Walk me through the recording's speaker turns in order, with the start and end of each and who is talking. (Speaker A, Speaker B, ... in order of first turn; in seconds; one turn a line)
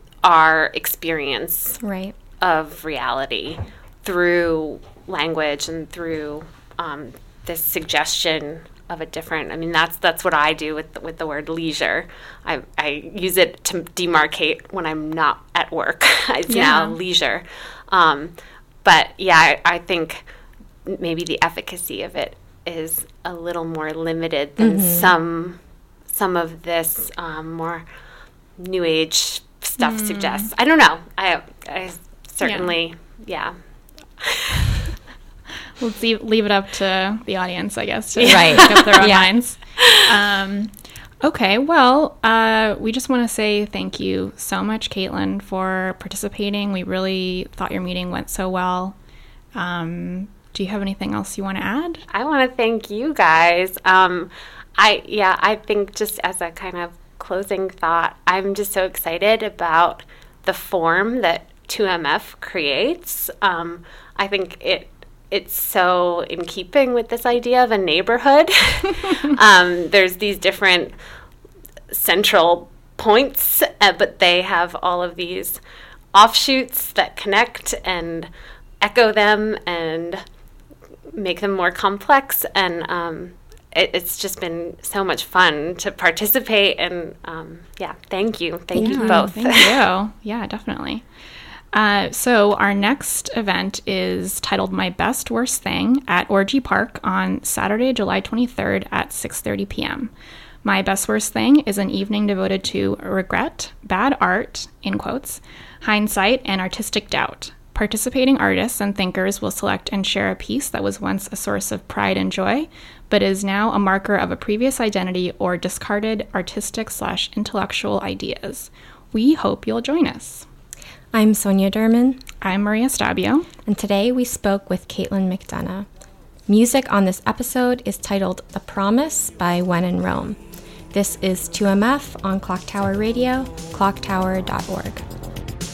Speaker A: 0.2-1.8
Speaker B: 1.8-2.2
Speaker A: 2.4-20.2
Speaker C: 16.5-17.0
Speaker A: 20.9-27.9
Speaker B: 24.6-25.1
Speaker A: 28.6-33.6
Speaker C: 29.8-30.5
Speaker C: 32.4-32.7
Speaker A: 34.2-34.7
Speaker C: 35.8-49.0
Speaker A: 38.1-39.2
Speaker B: 38.3-39.3
Speaker C: 49.5-52.0
Speaker A: 52.1-71.0
Speaker A: 71.9-75.6
Speaker A: 76.1-78.3
Speaker A: 78.8-80.2
Speaker A: 81.1-89.8
Speaker B: 88.7-89.3
Speaker C: 88.8-91.1
Speaker C: 91.7-100.1
Speaker C: 100.6-120.5
Speaker B: 121.1-122.2
Speaker C: 122.4-123.5
Speaker B: 123.7-125.9
Speaker B: 126.5-130.4
Speaker B: 130.9-135.0